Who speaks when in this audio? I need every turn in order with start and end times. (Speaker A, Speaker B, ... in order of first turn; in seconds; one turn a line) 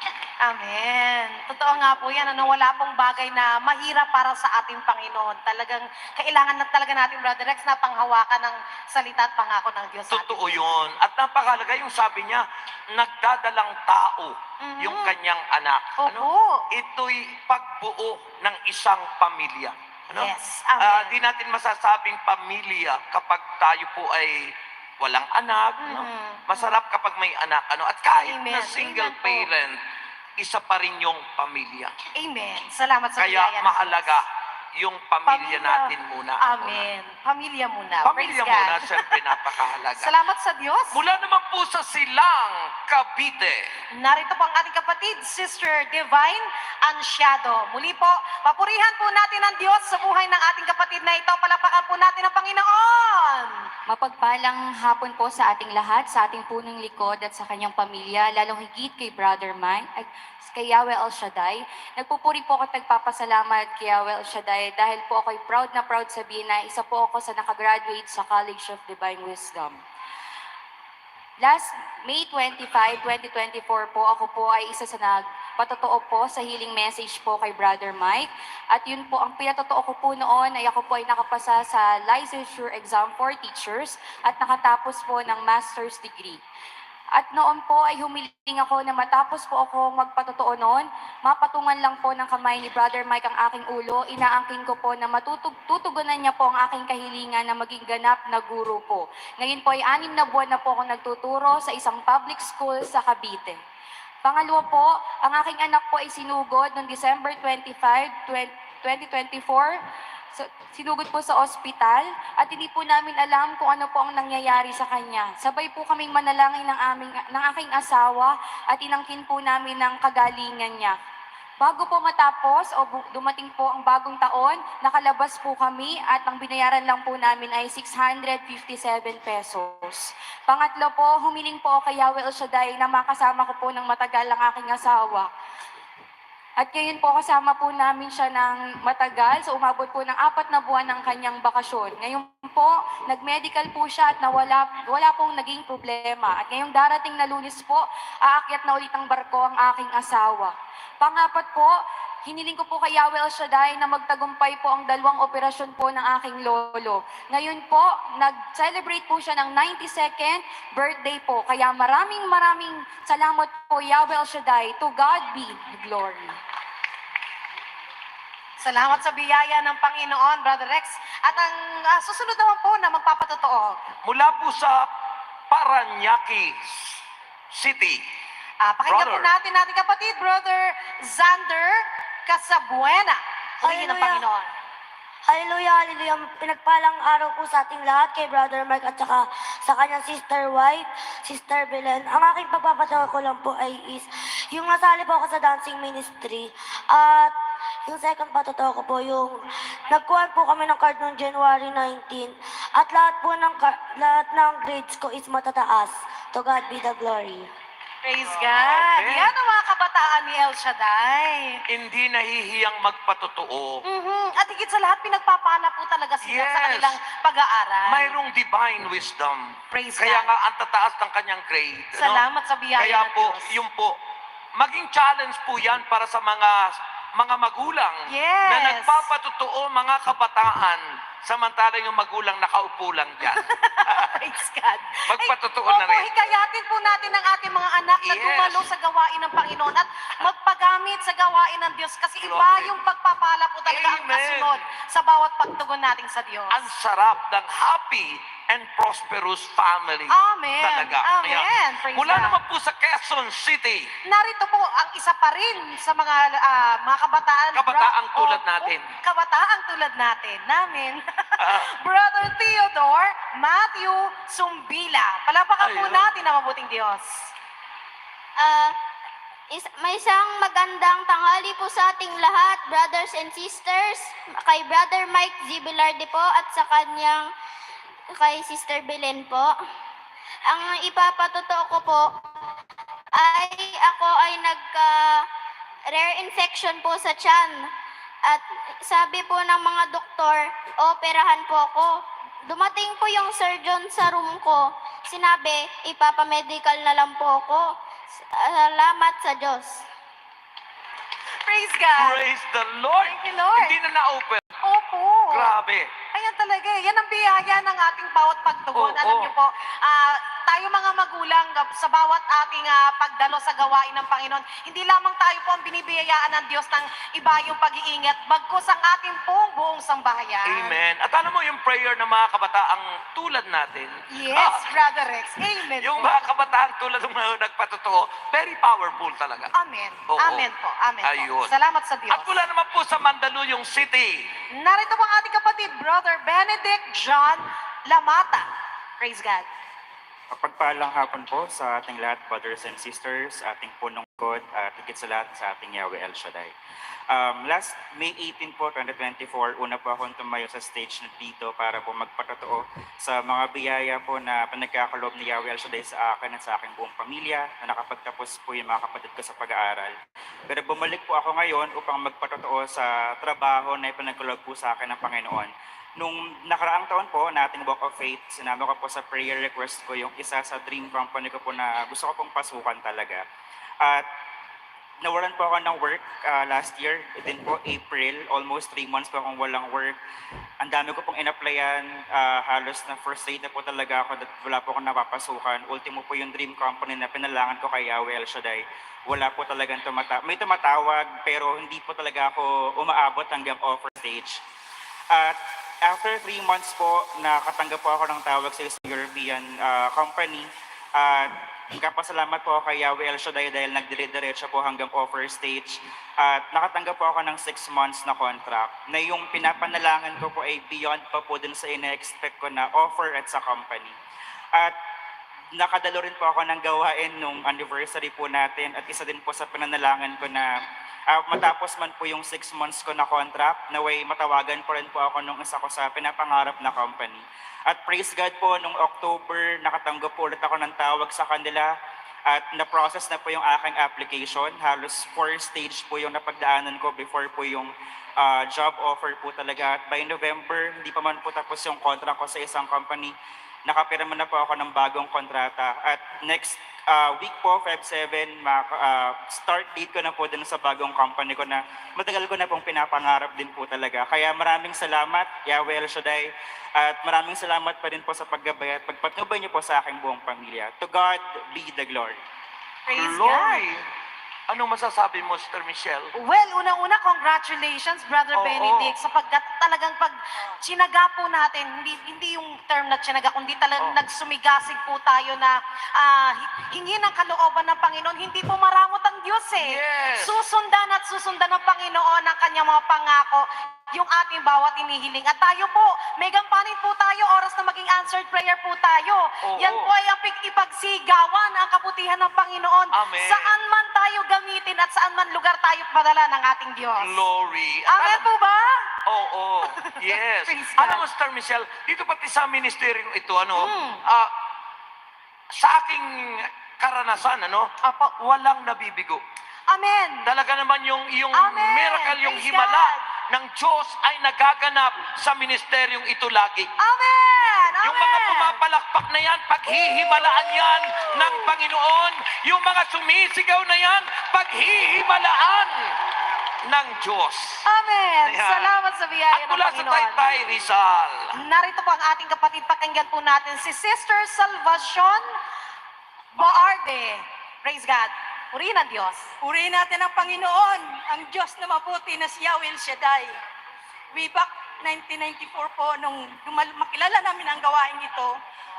Speaker A: 0.4-10.6
Speaker B: 10.1-29.8
Speaker A: 14.6-15.2
Speaker A: 16.0-16.6
Speaker A: 20.1-21.2
Speaker A: 25.8-26.8
Speaker A: 28.3-29.5
Speaker B: 30.4-31.9
Speaker A: 32.2-34.2
Speaker B: 33.2-34.2
Speaker B: 34.8-36.8
Speaker A: 35.3-39.1
Speaker B: 38.0-40.1
Speaker A: 40.0-41.0
Speaker B: 40.9-43.7
Speaker A: 44.0-53.6
Speaker C: 53.9-69.8
Speaker C: 71.4-86.4
Speaker C: 87.1-103.6
Speaker C: 104.2-109.8
Speaker C: 110.3-121.0
Speaker C: 121.6-135.3
Speaker C: 136.6-151.7
Speaker C: 152.2-166.4
Speaker A: 168.6-173.8
Speaker B: 174.0-174.9
Speaker B: 175.5-178.0
Speaker A: 178.6-184.5
Speaker B: 178.9-179.3
Speaker D: 183.6-184.2
Speaker D: 185.3-197.3
Speaker D: 197.9-199.4
Speaker D: 199.9-207.5
Speaker A: 208.0-211.6
Speaker B: 208.3-209.3
Speaker B: 211.7-213.8
Speaker A: 213.9-218.2
Speaker B: 216.2-217.0
Speaker B: 217.9-222.2
Speaker A: 219.7-220.3
Speaker A: 222.0-223.5
Speaker B: 222.8-224.0
Speaker B: 224.6-234.2
Speaker A: 228.1-229.1
Speaker A: 233.4-246.6
Speaker B: 235.1-236.1
Speaker B: 238.0-238.7
Speaker B: 242.2-242.8
Speaker B: 243.7-244.6
Speaker B: 246.5-253.9
Speaker A: 250.1-252.4
Speaker A: 254.1-261.0
Speaker B: 257.5-258.9
Speaker B: 261.4-261.7
Speaker A: 261.6-267.3
Speaker B: 265.6-266.1
Speaker E: 268.4-268.7
Speaker E: 269.5-277.3
Speaker E: 278.1-279.5
Speaker E: 280.5-282.1
Speaker E: 283.1-285.2
Speaker E: 285.9-287.6
Speaker E: 288.3-291.9
Speaker E: 292.5-299.9
Speaker A: 301.5-302.2
Speaker B: 302.0-304.5
Speaker A: 303.0-303.8
Speaker A: 304.6-305.5
Speaker B: 305.3-305.9
Speaker A: 306.1-320.8
Speaker B: 308.7-309.3
Speaker B: 320.4-324.6
Speaker A: 324.1-326.2
Speaker B: 325.8-329.5
Speaker A: 329.6-332.3
Speaker B: 330.1-330.5
Speaker B: 331.0-331.5
Speaker B: 332.1-334.3
Speaker A: 334.6-338.5
Speaker A: 339.0-339.5
Speaker F: 340.3-346.5
Speaker F: 347.1-360.0
Speaker F: 360.5-373.2
Speaker F: 373.8-374.1
Speaker F: 375.0-380.0
Speaker F: 380.6-394.4
Speaker F: 395.1-414.0
Speaker F: 415.5-431.7
Speaker F: 432.3-443.1
Speaker F: 443.7-462.2
Speaker A: 462.9-463.6
Speaker B: 462.9-463.8
Speaker B: 464.5-466.1
Speaker A: 466.2-497.2
Speaker B: 468.3-469.0
Speaker B: 479.6-480.4
Speaker B: 489.4-489.9
Speaker B: 492.9-493.5
Speaker B: 497.0-498.3
Speaker A: 497.9-498.9
Speaker B: 499.1-504.3
Speaker A: 500.5-501.0
Speaker A: 503.6-504.0
Speaker B: 505.5-509.2
Speaker A: 509.7-510.3
Speaker B: 510.3-516.7
Speaker A: 511.4-513.0
Speaker A: 516.8-518.6
Speaker B: 517.8-526.0
Speaker B: 526.6-527.7
Speaker A: 527.7-530.2
Speaker B: 528.2-528.7
Speaker B: 529.3-531.4
Speaker A: 531.4-535.3
Speaker A: 536.4-539.3
Speaker G: 539.4-543.3
Speaker G: 544.1-548.3